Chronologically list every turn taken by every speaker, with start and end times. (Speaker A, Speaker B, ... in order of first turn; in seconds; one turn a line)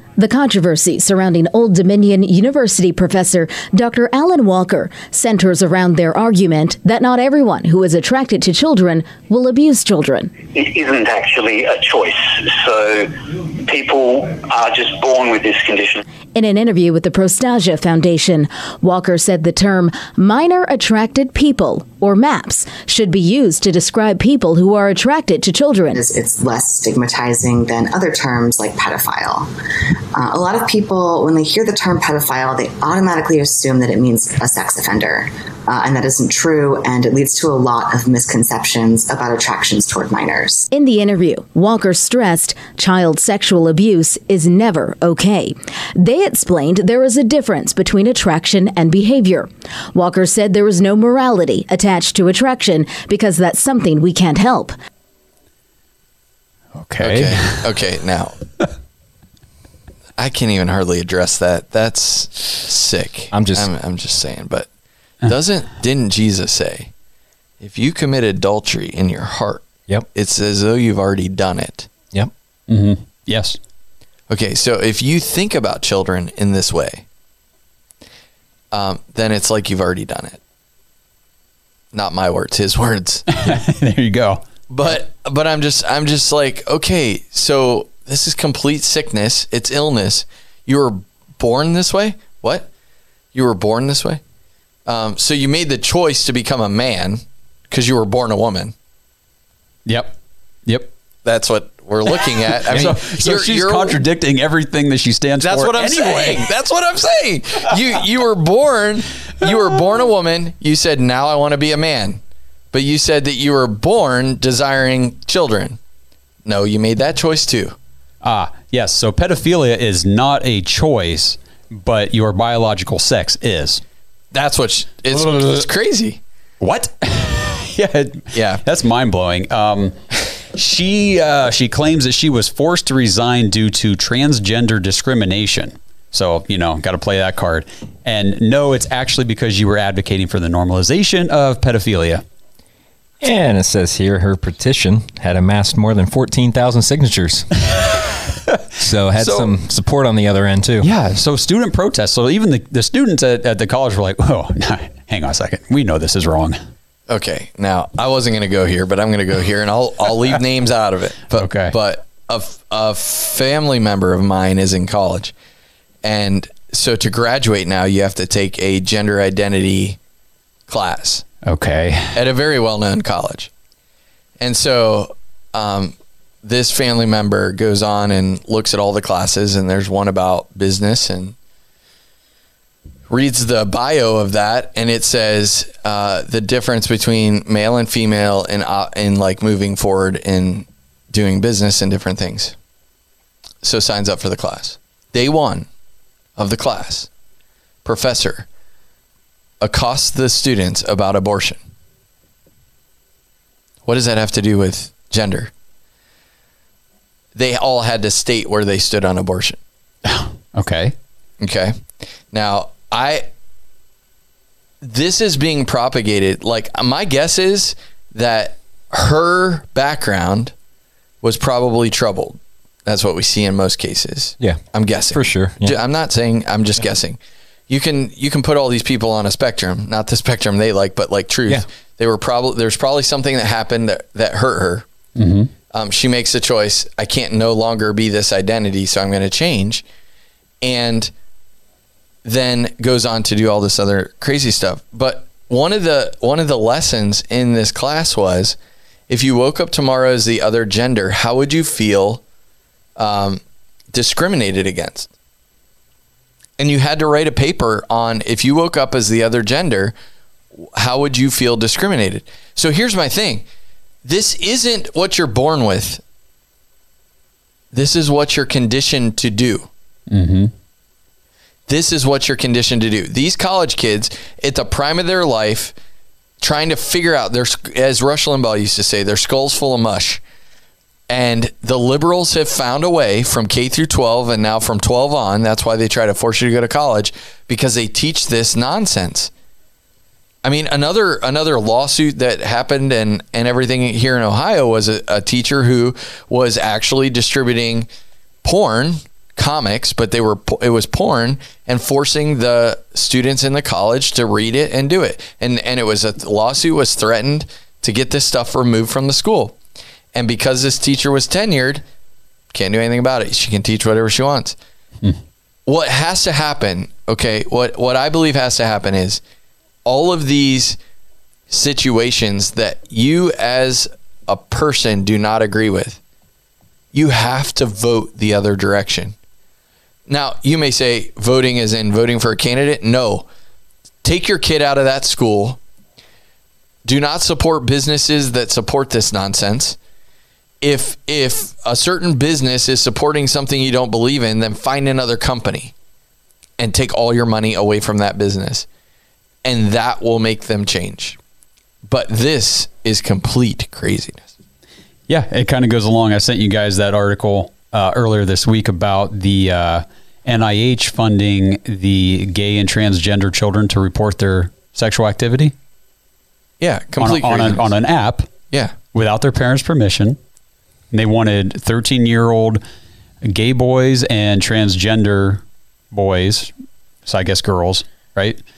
Speaker A: 0.2-10.4
Speaker B: 10.4-16.0
Speaker A: 16.4-26.0
Speaker C: 25.9-29.5
Speaker C: 30.1-40.7
Speaker A: 40.7-54.7
Speaker D: 56.7-57.6
Speaker E: 57.0-58.4
Speaker E: 60.2-64.7
Speaker F: 63.3-63.7
Speaker E: 65.2-66.9
Speaker E: 67.6-71.9
Speaker D: 72.7-73.6
Speaker E: 74.3-77.0
Speaker E: 78.7-80.4
Speaker E: 81.9-83.3
Speaker D: 83.3-84.9
Speaker E: 84.7-92.7
Speaker E: 93.3-94.2
Speaker E: 94.8-98.7
Speaker D: 99.8-100.1
Speaker E: 101.2-104.0
Speaker D: 102.7-106.4
Speaker E: 105.4-112.2
Speaker E: 112.7-115.8
Speaker E: 116.4-117.8
Speaker D: 118.2-123.8
Speaker E: 124.3-126.2
Speaker D: 125.1-125.7
Speaker D: 126.6-129.9
Speaker E: 128.3-128.6
Speaker D: 130.5-142.2
Speaker F: 143.2-147.5
Speaker F: 148.8-150.9
Speaker D: 149.2-149.5
Speaker D: 150.8-156.6
Speaker E: 157.1-165.3
Speaker D: 161.3-161.7
Speaker E: 166.0-170.0
Speaker E: 170.7-171.2
Speaker D: 171.4-172.2
Speaker E: 172.1-173.5
Speaker E: 174.4-181.3
Speaker E: 183.1-192.5
Speaker E: 193.6-195.7
Speaker E: 196.4-197.1
Speaker E: 197.8-198.4
Speaker E: 199.6-201.6
Speaker E: 203.8-205.5
Speaker E: 207.3-209.6
Speaker D: 210.0-210.9
Speaker E: 211.4-211.7
Speaker E: 212.3-213.2
Speaker E: 214.8-220.5
Speaker E: 221.2-227.2
Speaker F: 225.1-225.8
Speaker E: 227.7-234.8
Speaker D: 235.2-235.5
Speaker E: 235.7-239.8
Speaker E: 240.6-241.1
Speaker E: 242.2-248.6
Speaker E: 249.1-252.2
Speaker E: 252.9-253.4
Speaker E: 253.9-255.1
Speaker E: 256.6-259.9
Speaker E: 260.6-263.4
Speaker E: 264.0-266.0
Speaker E: 267.7-269.7
Speaker D: 270.1-270.5
Speaker E: 271.7-275.7
Speaker E: 276.4-280.2
Speaker E: 281.1-289.3
Speaker E: 290.4-297.9
Speaker E: 298.4-309.6
Speaker E: 310.1-311.8
Speaker E: 312.5-314.6
Speaker E: 315.6-319.2
Speaker E: 319.8-320.8
Speaker E: 321.5-326.0
Speaker E: 326.9-329.1
Speaker E: 330.1-333.2
Speaker E: 334.0-335.6
Speaker E: 336.8-339.8
Speaker E: 340.6-345.7
Speaker E: 346.6-348.6
Speaker E: 349.4-351.2
Speaker E: 351.9-354.3
Speaker D: 355.1-365.5
Speaker E: 366.6-367.7
Speaker D: 367.0-368.3
Speaker D: 368.9-370.2
Speaker D: 370.9-372.6
Speaker D: 373.2-376.5
Speaker D: 377.1-378.4